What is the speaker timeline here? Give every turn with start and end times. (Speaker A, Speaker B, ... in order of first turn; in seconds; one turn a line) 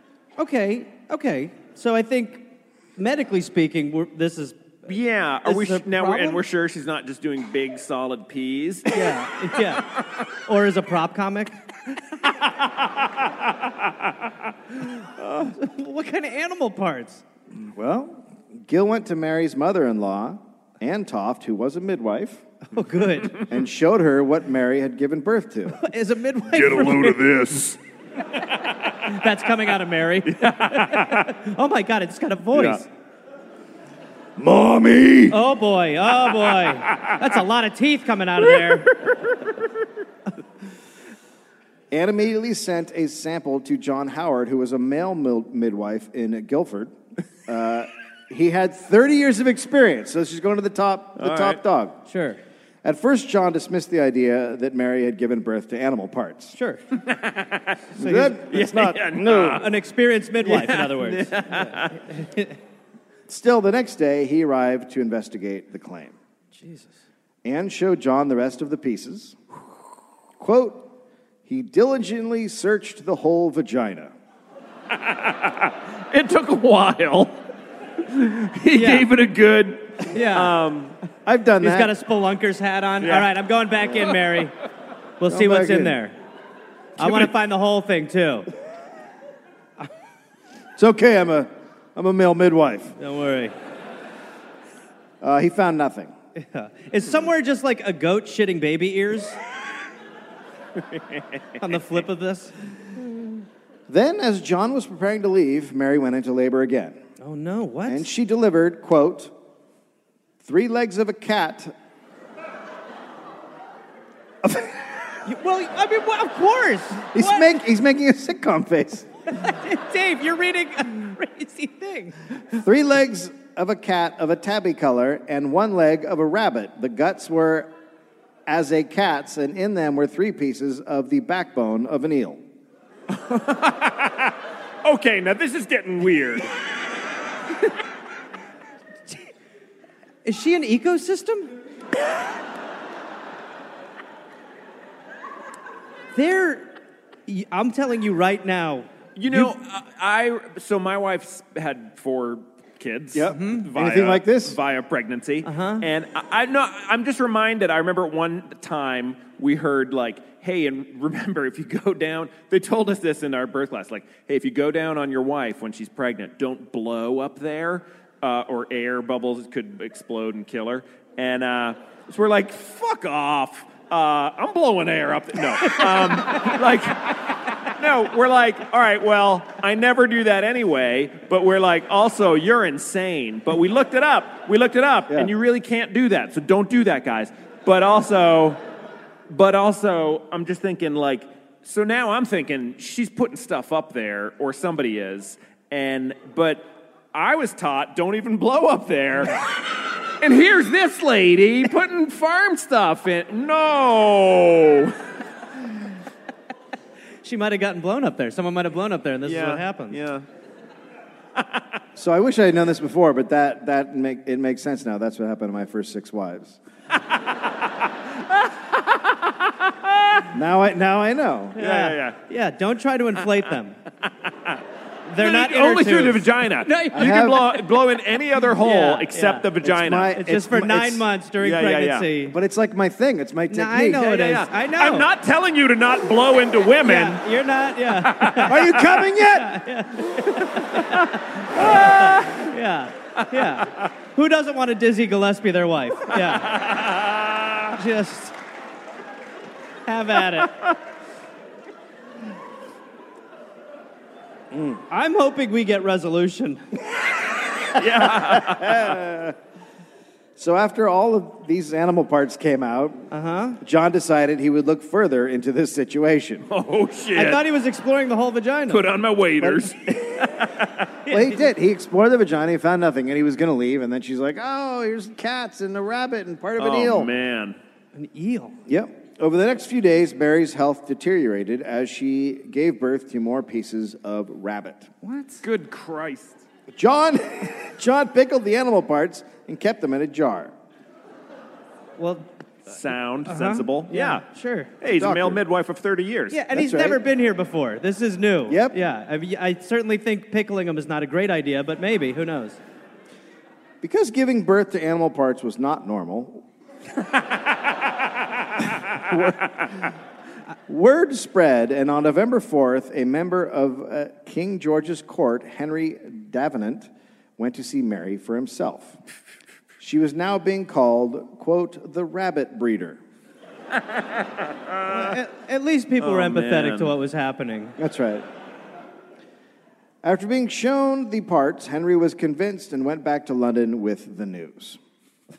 Speaker A: 0.4-4.7
Speaker B: 4.9-9.2
Speaker A: 5.5-6.4
Speaker A: 8.9-11.6
Speaker A: 15.2-17.2
Speaker C: 17.6-22.4
Speaker A: 22.7-23.4
Speaker C: 23.4-25.8
Speaker A: 25.8-27.5
Speaker C: 26.9-27.7
Speaker A: 29.0-32.9
Speaker B: 30.3-31.3
Speaker B: 32.5-32.8
Speaker C: 34.4-35.4
Speaker A: 35.3-39.0
Speaker B: 38.5-39.3
Speaker C: 41.9-47.0
Speaker C: 47.5-52.0
Speaker B: 51.2-51.6
Speaker A: 52.1-52.4
Speaker C: 52.8-56.5
Speaker A: 56.5-56.8
Speaker B: 56.9-57.8
Speaker C: 58.0-59.6
Speaker A: 58.0-58.4
Speaker B: 58.5-59.8
Speaker A: 59.5-62.5
Speaker B: 60.4-62.0
Speaker C: 63.3-66.2
Speaker A: 66.6-66.9
Speaker C: 67.4-69.7
Speaker C: 70.4-70.9
Speaker C: 71.5-74.1
Speaker B: 74.9-77.4
Speaker B: 78.0-81.0
Speaker A: 78.7-79.1
Speaker A: 80.0-80.6
Speaker C: 81.2-81.9
Speaker A: 81.6-84.5
Speaker B: 83.0-83.3
Speaker A: 85.2-86.2
Speaker C: 85.3-86.0
Speaker A: 87.0-88.5
Speaker B: 87.0-87.3
Speaker C: 90.8-93.0
Speaker A: 93.0-93.5
Speaker C: 95.2-96.1
Speaker A: 96.4-99.4
Speaker A: 101.6-102.5
Speaker C: 103.9-107.0
Speaker A: 107.2-108.1
Speaker C: 107.9-109.3
Speaker C: 110.4-111.7
Speaker C: 114.4-115.0
Speaker A: 115.3-117.5
Speaker C: 117.1-119.1
Speaker A: 119.3-122.2
Speaker C: 122.5-127.7
Speaker C: 128.5-132.4
Speaker B: 133.1-136.5
Speaker A: 140.2-141.5
Speaker A: 146.2-146.7
Speaker A: 147.3-148.9
Speaker B: 149.2-188.6
Speaker C: 153.2-154.6
Speaker A: 153.3-153.7
Speaker A: 155.4-155.9
Speaker A: 175.7-176.6
Speaker B: 189.3-205.1
Speaker A: 207.2-210.0
Speaker B: 209.2-210.3
Speaker C: 212.0-216.6
Speaker B: 217.1-220.3
Speaker C: 220.3-221.6
Speaker A: 221.6-223.8
Speaker B: 221.6-222.2
Speaker B: 224.1-224.6
Speaker A: 225.1-227.6
Speaker B: 225.2-230.1
Speaker C: 226.9-227.4
Speaker A: 228.6-229.5
Speaker C: 229.6-231.1
Speaker A: 230.1-232.4
Speaker B: 231.4-232.1
Speaker C: 232.3-234.1
Speaker A: 233.5-235.1
Speaker B: 234.0-237.2
Speaker A: 236.8-246.7
Speaker B: 237.9-238.8
Speaker C: 238.4-239.6
Speaker B: 240.4-242.5
Speaker B: 243.3-243.7
Speaker B: 246.1-247.7
Speaker A: 247.7-248.3
Speaker A: 249.9-250.6
Speaker A: 254.9-256.7
Speaker B: 257.7-259.0
Speaker C: 258.0-259.4
Speaker C: 260.4-263.1
Speaker A: 263.1-263.6
Speaker C: 263.6-266.5
Speaker B: 266.5-267.4
Speaker A: 267.1-268.8
Speaker B: 268.7-270.9
Speaker C: 271.1-277.1
Speaker A: 271.1-271.3
Speaker B: 276.6-277.6
Speaker A: 277.9-278.6
Speaker C: 278.7-284.9
Speaker A: 285.0-285.4
Speaker B: 285.4-286.4
Speaker C: 286.7-290.5
Speaker A: 292.0-292.3
Speaker B: 292.7-294.2
Speaker A: 293.2-294.7
Speaker B: 294.8-296.4
Speaker C: 294.9-295.4
Speaker A: 296.3-302.6
Speaker C: 296.5-297.0
Speaker C: 298.5-298.8
Speaker C: 303.8-306.4
Speaker C: 308.9-309.9
Speaker C: 310.7-319.0
Speaker C: 319.8-323.0
Speaker B: 324.8-325.1
Speaker A: 324.9-327.8
Speaker B: 326.0-326.9
Speaker C: 327.8-328.3
Speaker C: 330.0-334.8